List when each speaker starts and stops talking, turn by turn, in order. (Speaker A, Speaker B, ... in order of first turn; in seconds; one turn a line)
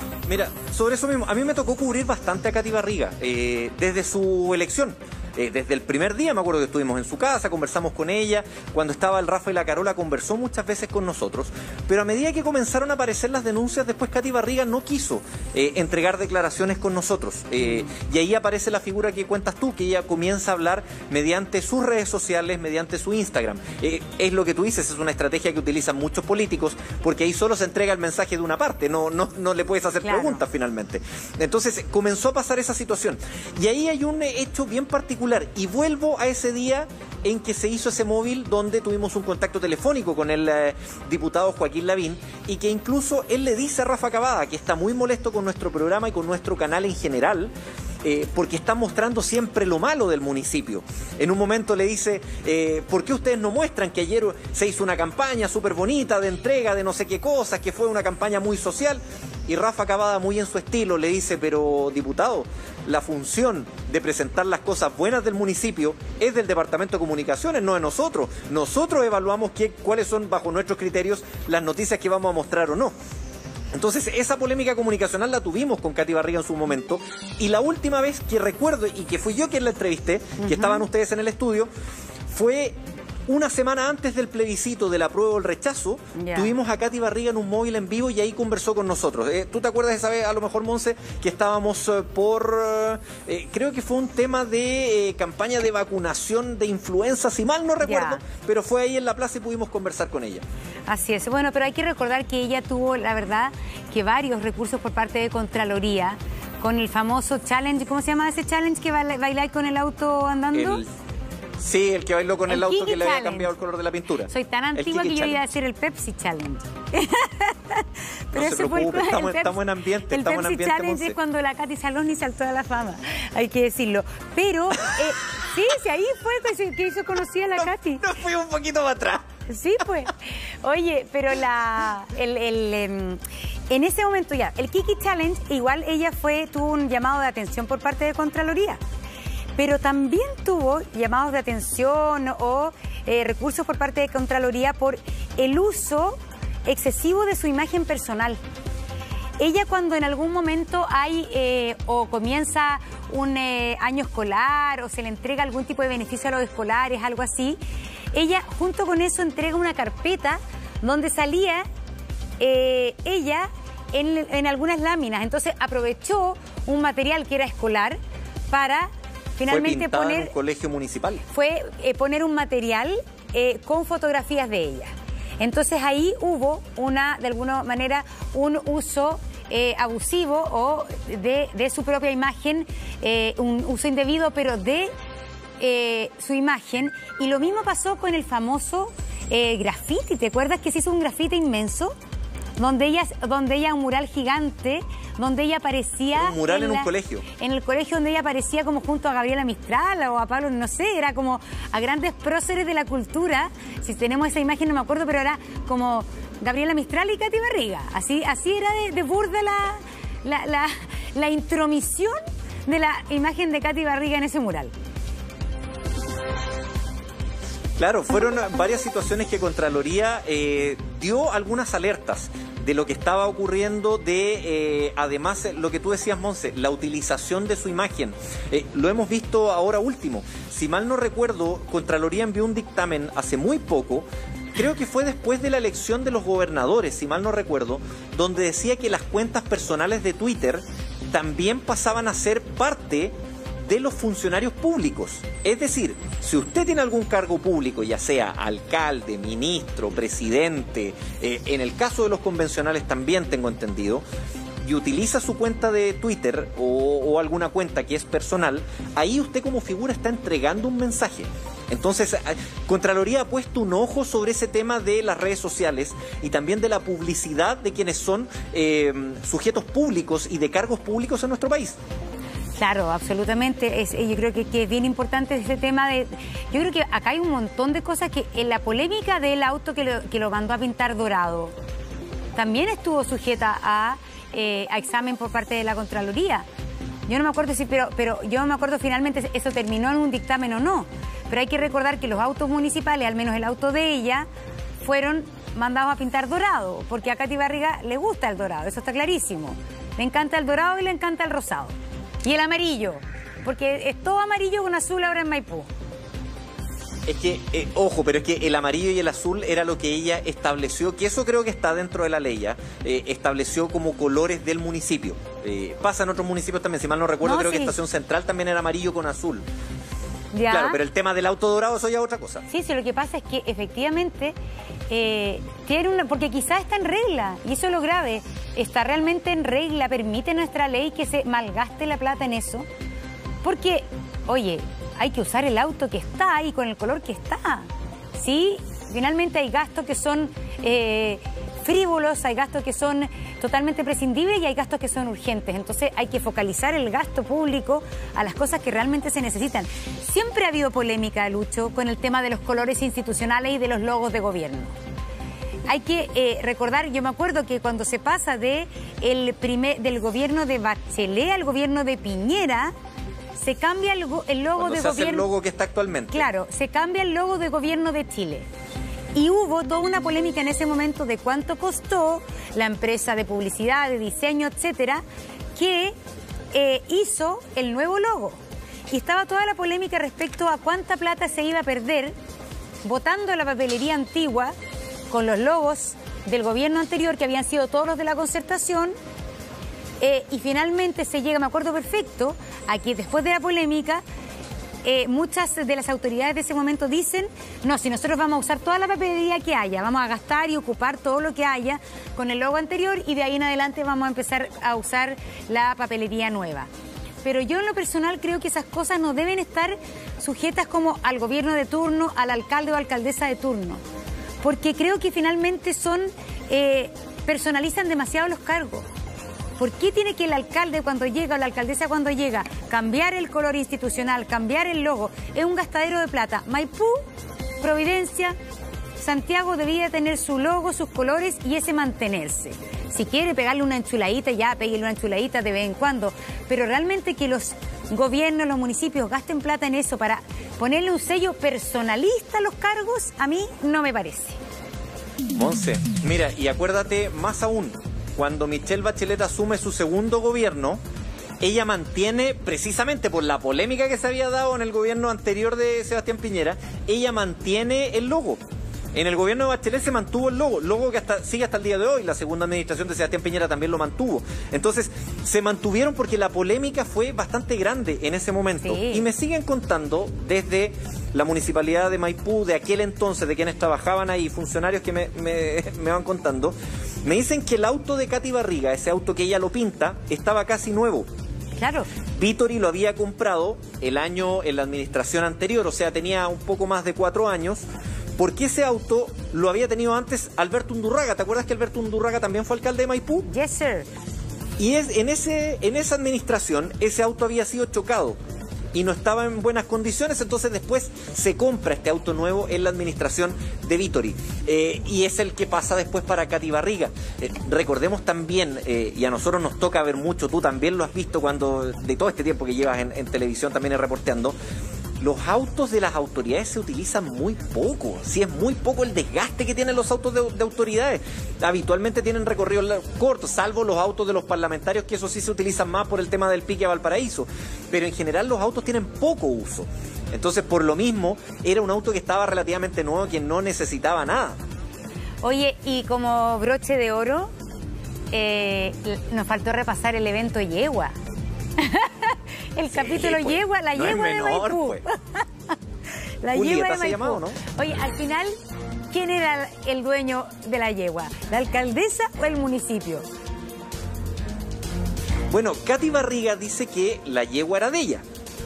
Speaker A: 0.3-47.5
Speaker B: 30.0-30.4
Speaker A: 48.0-73.0
Speaker A: 73.7-81.7
Speaker B: 80.4-80.8
Speaker A: 82.3-82.8
Speaker A: 83.3-100.4
Speaker B: 86.2-86.5
Speaker B: 97.8-98.2
Speaker B: 100.9-110.8
Speaker A: 110.5-110.9
Speaker A: 111.6-115.4
Speaker B: 112.5-113.5
Speaker B: 114.3-128.1
Speaker A: 118.3-121.2
Speaker A: 127.6-129.3
Speaker B: 129.5-138.8
Speaker B: 139.6-148.4
Speaker B: 149.4-157.6
Speaker B: 158.1-161.7
Speaker B: 162.4-168.0
Speaker B: 168.5-170.3
Speaker A: 169.5-171.2
Speaker B: 171.3-184.9
Speaker B: 185.6-191.9
Speaker B: 192.6-214.7
Speaker A: 196.2-197.2
Speaker A: 217.8-254.0
Speaker A: 254.6-271.8
Speaker B: 272.6-281.5
Speaker B: 282.4-286.5
Speaker B: 287.1-294.3
Speaker B: 294.8-305.7
Speaker A: 307.1-319.4
Speaker B: 317.2-317.8
Speaker B: 320.3-320.8
Speaker A: 320.5-322.4
Speaker B: 322.5-324.3
Speaker B: 324.9-332.7
Speaker B: 333.4-354.8
Speaker B: 355.7-362.7
Speaker B: 363.4-365.3
Speaker A: 364.6-366.3
Speaker B: 366.1-368.5
Speaker B: 369.1-375.0
Speaker B: 375.6-376.0
Speaker B: 376.5-382.1
Speaker B: 382.8-384.5
Speaker B: 385.1-388.9
Speaker B: 390.0-394.0
Speaker B: 394.8-406.7
Speaker B: 407.2-413.8
Speaker B: 414.4-418.9
Speaker B: 419.6-427.0
Speaker B: 427.6-428.4
Speaker B: 429.0-444.4
Speaker A: 445.3-450.8
Speaker A: 451.4-458.4
Speaker A: 458.9-481.1
Speaker B: 468.6-469.1
Speaker B: 481.6-481.9
Speaker A: 482.2-487.6
Speaker A: 488.2-493.3
Speaker B: 493.3-493.9
Speaker A: 494.6-498.2
Speaker A: 498.7-514.4
Speaker A: 515.0-534.4
Speaker B: 535.2-537.3
Speaker B: 538.1-540.9
Speaker B: 541.6-545.2
Speaker A: 542.7-544.8
Speaker B: 546.2-548.4
Speaker A: 546.3-547.4
Speaker B: 548.9-553.1
Speaker A: 555.3-558.0